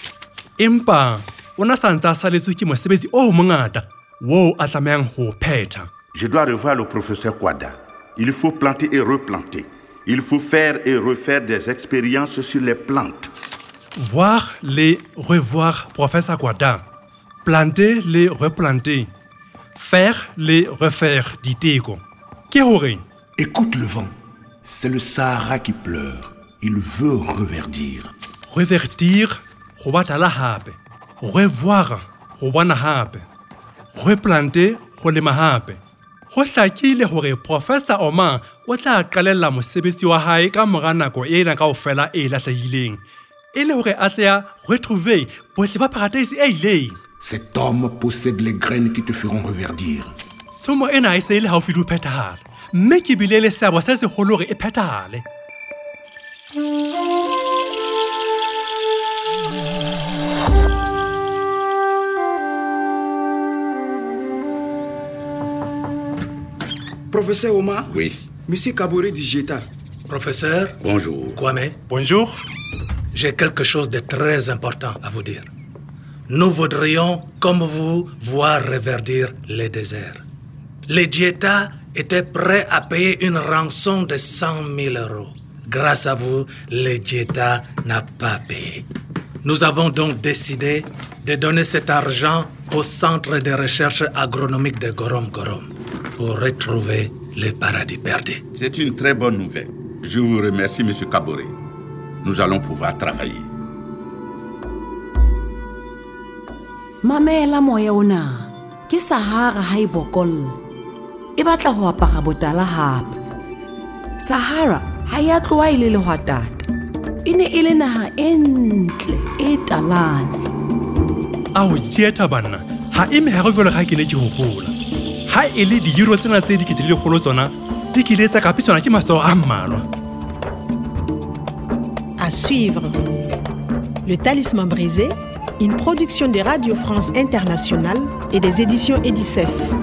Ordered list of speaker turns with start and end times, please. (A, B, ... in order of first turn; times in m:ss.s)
0:00.6-0:05.9 A
0:06.1-0:13.3 B
0:14.0-0:16.8 A
0:17.4-0:19.1 A
0:19.8-0:23.0 A
0:23.4-0:24.1 C
0:24.6-0:28.1 C
0:28.5-0:33.2 A
0:34.0-0:35.8 A
0:36.3-0:43.0 A
0:43.5-0:47.0 A
0:47.2-0:50.1 C
0:50.6-0:55.2 A
1:07.1-1:07.9 D
1:07.9-1:08.2 B
1:08.5-1:09.7 D
1:10.1-1:10.8 E
1:10.8-1:11.4 B
1:11.4-1:11.8 E
1:11.9-1:12.4 A
1:13.1-1:15.5 E
1:16.3-1:20.2 E
1:20.9-1:28.9 E
1:29.4-1:38.4 E
1:38.5-1:41.6 B
1:42.2-1:43.5 B
1:47.0-1:50.6 F
1:51.4-1:53.2 F
1:54.2-1:56.6 F
1:57.2-2:00.4 F
2:01.6-2:04.8 A
2:05.3-2:09.9 A
2:12.2-2:13.0 G
2:14.0-2:19.7 G